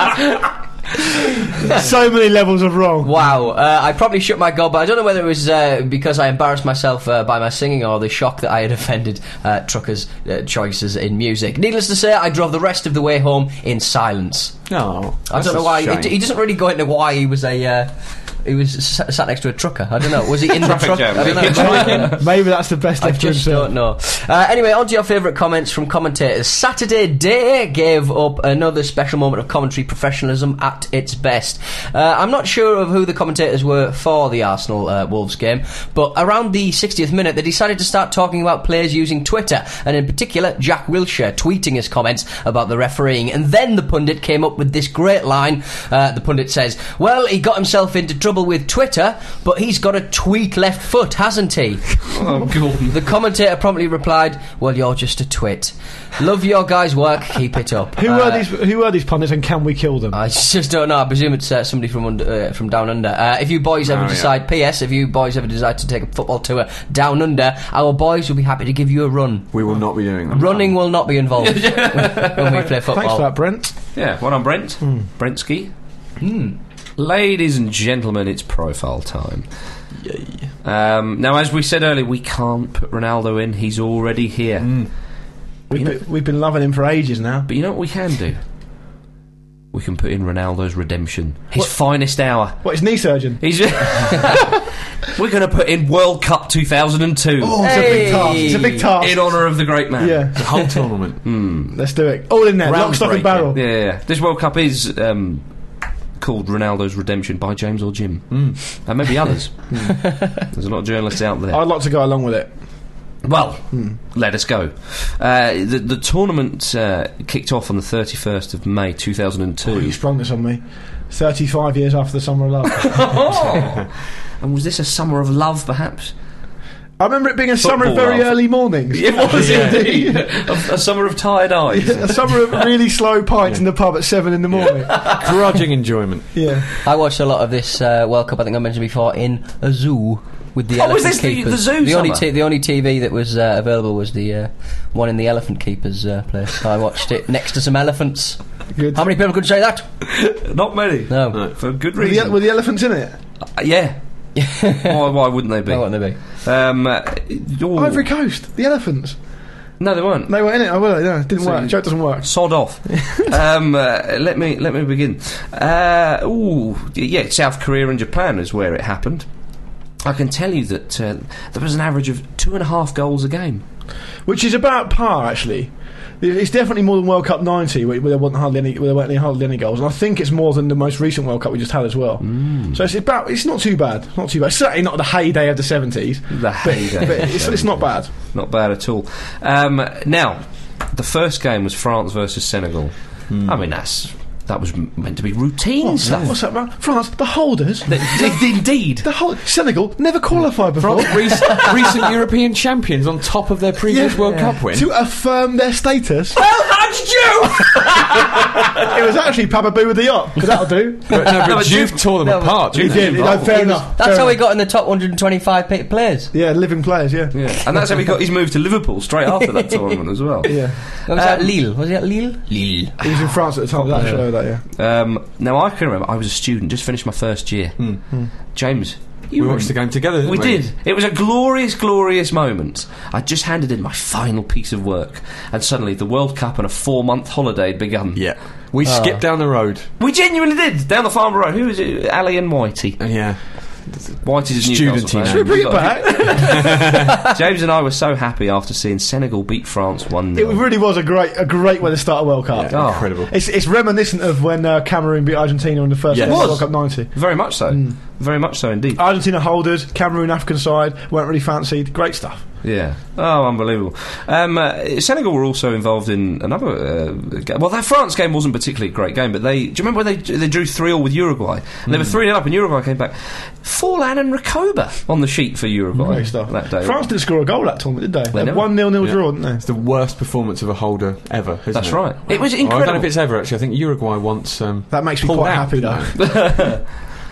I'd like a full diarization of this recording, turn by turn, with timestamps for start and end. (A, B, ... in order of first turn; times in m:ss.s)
0:01.5-0:03.1 A
0:03.0-0:14.7 B
0:14.7-0:16.1 C
0:15.3-0:22.2 B
0:20.5-0:22.2 D
0:21.1-0:22.2 C
0:21.4-0:23.7 A
0:23.0-0:52.1 B
0:52.1-0:53.0 D
0:52.9-0:58.4 B
0:58.0-1:00.2 A
1:00.1-1:13.2 B
1:03.8-1:04.3 C
1:09.5-1:10.7 C
1:11.4-1:12.6 D
1:12.9-1:13.7 A
1:13.9-1:15.7 D
1:16.2-1:16.5 B
1:17.0-1:19.4 D
1:20.0-1:20.4 C
1:20.6-1:24.9 D
1:24.6-1:24.9 C
1:25.7-1:27.5 A
1:25.7-1:26.0 D
1:27.5-1:28.4 D
1:29.7-1:32.7 D
1:32.6-1:34.2 A
1:33.4-1:40.6 D
1:37.4-1:40.7 A
1:37.6-1:38.9 B
1:40.3-1:41.2 C
1:41.2-1:41.7 D
1:41.7-1:43.6 A
1:42.6-1:43.5 C
1:43.5-1:45.5 D
1:46.2-1:51.6 D
1:48.3-1:48.6 C
1:49.7-1:50.0 A
1:51.5-1:52.5 A
1:53.2-2:00.0 D
1:53.7-1:54.0 A
1:59.7-2:03.4 A
2:02.9-2:06.1 D
2:07.0-2:10.5 A
2:07.6-2:12.6 D
2:09.3-2:09.8 C
2:11.7-2:15.2 A
2:14.5-2:16.3 C
2:16.3-2:16.6 A
2:16.8-2:29.8 B
2:20.8-2:22.2 D
2:28.7-2:29.0 A
2:30.0-2:32.4 D
2:31.1-2:31.4 B
2:32.0-2:33.2 A
2:33.6-2:38.0 D
2:34.4-2:34.9 B
2:35.6-2:36.2 B
2:37.7-2:39.2 A
2:39.8-2:40.4 D
2:40.3-2:43.3 A
2:41.4-2:49.2 D
2:50.0-2:53.6 D
2:54.2-3:08.1 A
3:02.2-3:02.8 D
3:06.3-3:16.4 D
3:13.3-3:13.6 C
3:15.8-3:21.6 A
3:16.0-3:16.4 C
3:17.9-3:19.1 D
3:20.8-3:24.9 C
3:20.8-3:22.0 D
3:23.9-3:26.4 A
3:26.4-3:28.7 D
3:27.7-3:31.3 A
3:31.1-3:33.5 C
3:31.3-3:33.8 D
3:32.2-3:36.3 B
3:32.8-3:34.4 A
3:36.3-3:37.5 A
3:37.3-3:41.5 D
3:39.4-3:43.0 B
3:40.4-3:40.8 A
3:43.0-3:44.6 A
3:43.9-3:58.4 D
3:49.4-3:50.6 C
3:58.2-3:59.9 C
3:58.8-3:59.2 B
4:00.0-4:03.4 D
4:03.0-4:07.2 C
4:04.2-4:10.6 D
4:05.2-4:06.8 A
4:10.3-4:18.0 A
4:12.5-4:13.3 C
4:12.7-4:13.2 D
4:16.1-4:16.6 C
4:16.2-4:19.0 D
4:18.9-4:22.4 A
4:22.6-4:37.0 D
4:31.9-4:32.2 C
4:36.0-4:39.6 A
4:38.3-4:38.9 D
4:39.0-4:46.2 C
4:41.7-4:43.1 D
4:44.9-4:46.4 A
4:46.2-4:46.9 D